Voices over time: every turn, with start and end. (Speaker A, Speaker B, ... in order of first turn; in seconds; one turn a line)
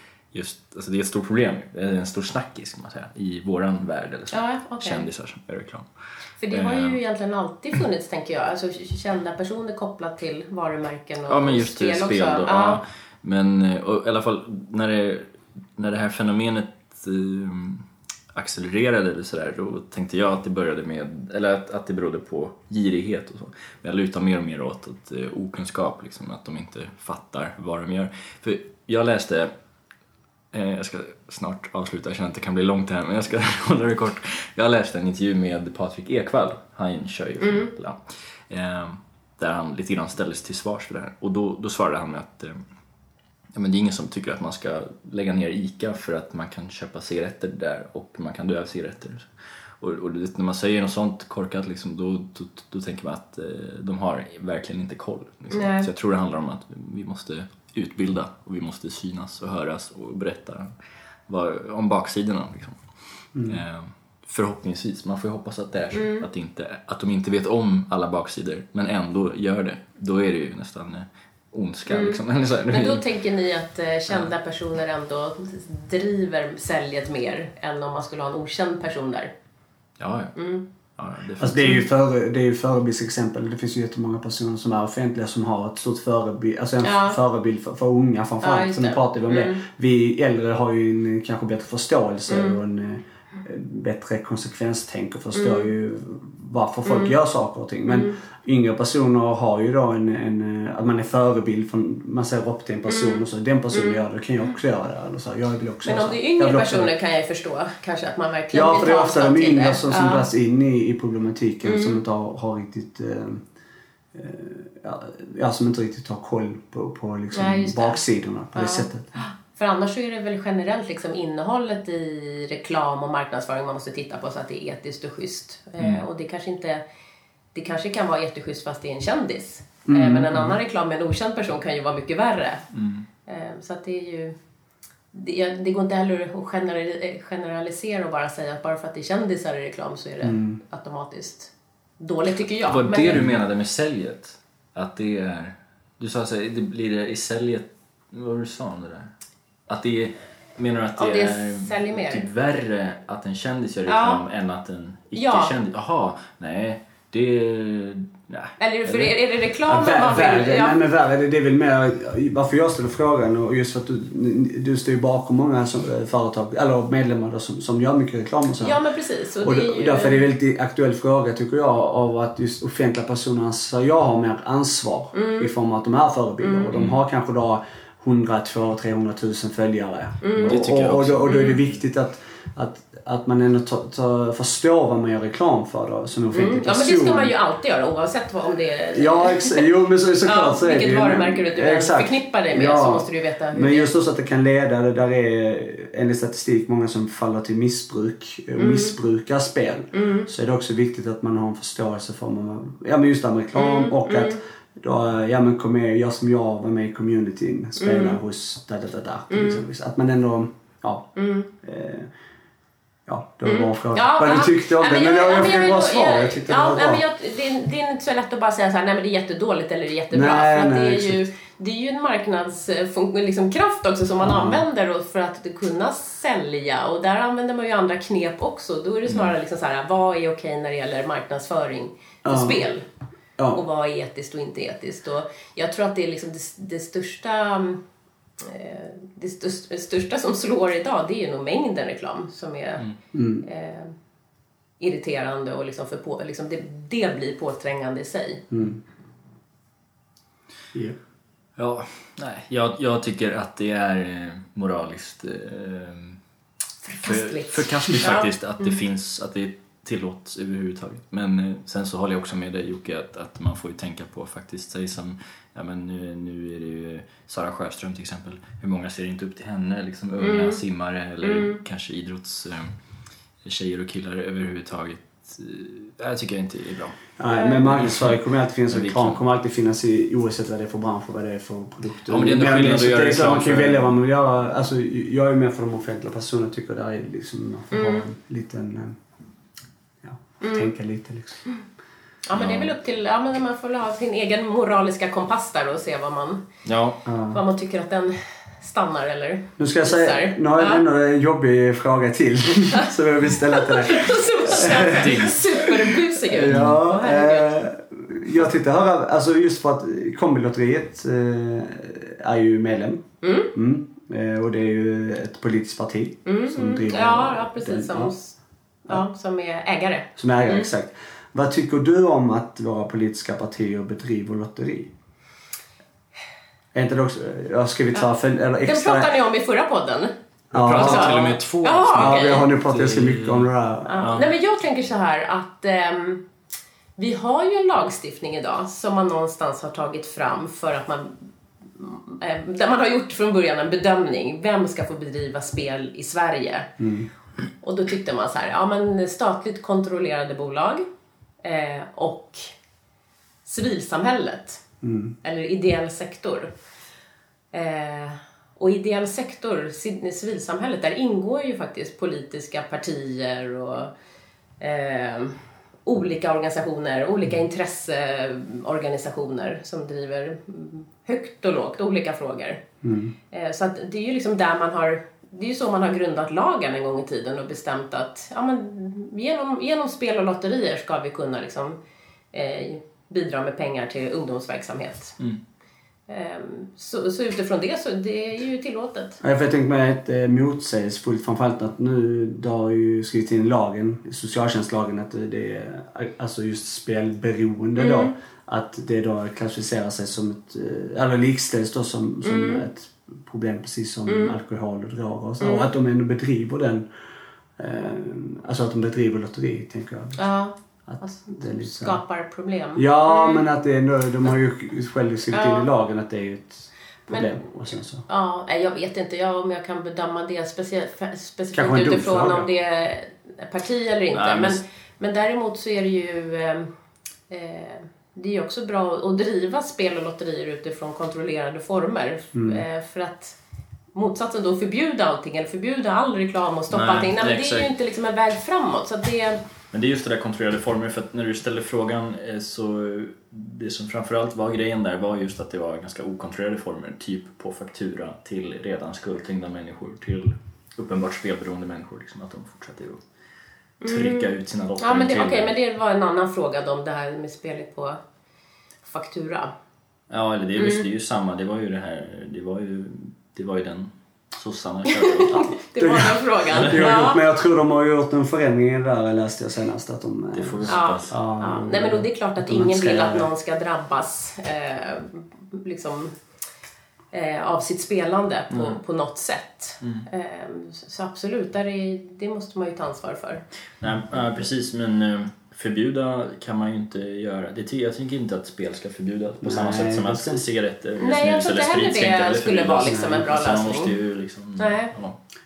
Speaker A: 0.3-5.9
Speaker B: 4.3-5.1
Speaker B: 6.4-12.8
Speaker A: 6.5-7.0
Speaker A: 11.3-29.5
Speaker A: 30.5-42.6
Speaker B: 37.4-37.7
Speaker A: 43.5-60.7
Speaker B: 55.5-55.9
Speaker A: 61.3-62.8
Speaker C: 63.3-63.6
Speaker A: 63.4-73.0
Speaker B: 65.9-66.2
Speaker B: 71.9-79.3
Speaker A: 80.0-80.3
Speaker B: 80.3-80.7
Speaker A: 81.0-81.8
Speaker C: 81.4-106.9
Speaker B: 86.8-87.2
Speaker B: 88.4-89.6
Speaker B: 92.3-92.6
Speaker B: 95.3-95.7
Speaker B: 96.8-97.2
Speaker B: 97.9-98.1
Speaker B: 102.9-104.0
Speaker B: 105.8-110.3
Speaker C: 108.5-113.4
Speaker B: 111.6-112.0
Speaker C: 114.1-119.1
Speaker B: 117.3-118.0
Speaker B: 118.5-126.8
Speaker A: 125.8-126.0
Speaker B: 127.5-132.7
Speaker C: 129.8-130.6
Speaker A: 132.7-133.1
Speaker B: 133.2-134.3
Speaker B: 135.1-143.2
Speaker C: 140.2-140.6
Speaker A: 142.7-149.1
Speaker A: 149.7-159.2
Speaker B: 151.0-152.2
Speaker B: 153.9-154.2
Speaker B: 155.1-155.5
Speaker B: 158.6-160.8
Speaker C: 159.7-168.8
Speaker B: 168.6-170.2
Speaker C: 169.4-187.3
Speaker B: 175.1-175.5
Speaker B: 176.4-176.7
Speaker B: 180.2-180.6
Speaker A: 180.3-181.5
Speaker B: 181.2-181.6
Speaker B: 186.3-189.7
Speaker C: 188.9-212.1
Speaker B: 190.2-193.9
Speaker B: 198.6-198.9
Speaker B: 199.9-200.3
Speaker B: 203.5-204.4
Speaker B: 207.8-208.2
Speaker B: 209.3-209.6
Speaker B: 211.2-211.5
Speaker C: 213.1-217.0
Speaker B: 213.4-232.8
Speaker C: 220.1-221.2
Speaker C: 224.2-224.6
Speaker C: 232.2-232.6
Speaker B: 233.5-237.8
Speaker B: 238.4-242.8
Speaker C: 243.1-243.4
Speaker B: 243.4-243.9
Speaker B: 244.8-248.4
Speaker C: 248.5-248.8
Speaker A: 251.6-256.2
Speaker B: 256.8-258.8
Speaker A: 257.0-272.7
Speaker B: 270.2-270.6
Speaker B: 271.2-271.6
Speaker A: 273.4-277.0
Speaker C: 277.2-289.0
Speaker B: 277.3-277.6
Speaker A: 277.7-278.1
Speaker A: 278.7-279.2
Speaker A: 282.1-283.9
Speaker B: 287.7-288.1
Speaker C: 290.0-291.4
Speaker B: 290.4-290.7
Speaker B: 292.2-296.4
Speaker A: 292.3-292.7
Speaker A: 296.6-297.0
Speaker C: 297.1-297.4
Speaker B: 297.3-300.8
Speaker C: 299.6-318.1
Speaker B: 303.5-307.6
Speaker A: 304.6-305.4
Speaker A: 306.4-306.8
Speaker B: 313.2-313.5
Speaker B: 316.2-320.7
Speaker C: 320.1-324.9
Speaker C: 326.7-329.1
Speaker B: 328.6-330.1
Speaker C: 330.5-331.1
Speaker A: 330.5-334.3
Speaker B: 330.7-332.5
Speaker C: 331.9-334.2
Speaker B: 333.9-336.2
Speaker B: 337.0-346.7
Speaker C: 346.8-347.1
Speaker B: 347.6-350.8
Speaker B: 351.4-352.5
Speaker B: 353.4-354.6
Speaker C: 354.8-355.1
Speaker B: 355.2-356.5
Speaker B: 357.5-363.9
Speaker B: 364.6-372.6
Speaker C: 372.8-373.1
Speaker B: 373.3-381.8
Speaker B: 382.3-385.2
Speaker B: 386.1-389.2
Speaker C: 389.2-406.9
Speaker B: 397.8-398.1
Speaker B: 402.2-402.6
Speaker B: 404.1-404.3
Speaker B: 405.4-405.7
Speaker C: 407.6-410.3
Speaker B: 410.2-413.4
Speaker C: 410.9-412.0
Speaker C: 412.7-418.0
Speaker B: 415.3-415.7
Speaker B: 417.1-417.4
Speaker B: 418.1-426.7
Speaker C: 421.5-422.5
Speaker A: 424.1-424.6
Speaker B: 427.3-433.4
Speaker C: 432.3-432.6
Speaker B: 433.9-439.4
Speaker A: 436.7-437.7
Speaker A: 439.7-453.0
Speaker B: 453.8-458.0
Speaker A: 453.8-455.5
Speaker B: 458.8-459.5
Speaker A: 460.1-465.6
Speaker B: 460.6-460.8
Speaker B: 464.9-467.2
Speaker C: 465.8-473.3
Speaker A: 470.3-471.2
Speaker B: 470.7-476.1
Speaker B: 477.1-483.4
Speaker A: 478.5-478.8
Speaker A: 483.8-495.2
Speaker C: 489.4-490.4
Speaker B: 491.0-493.9
Speaker C: 492.8-493.3
Speaker B: 494.6-494.9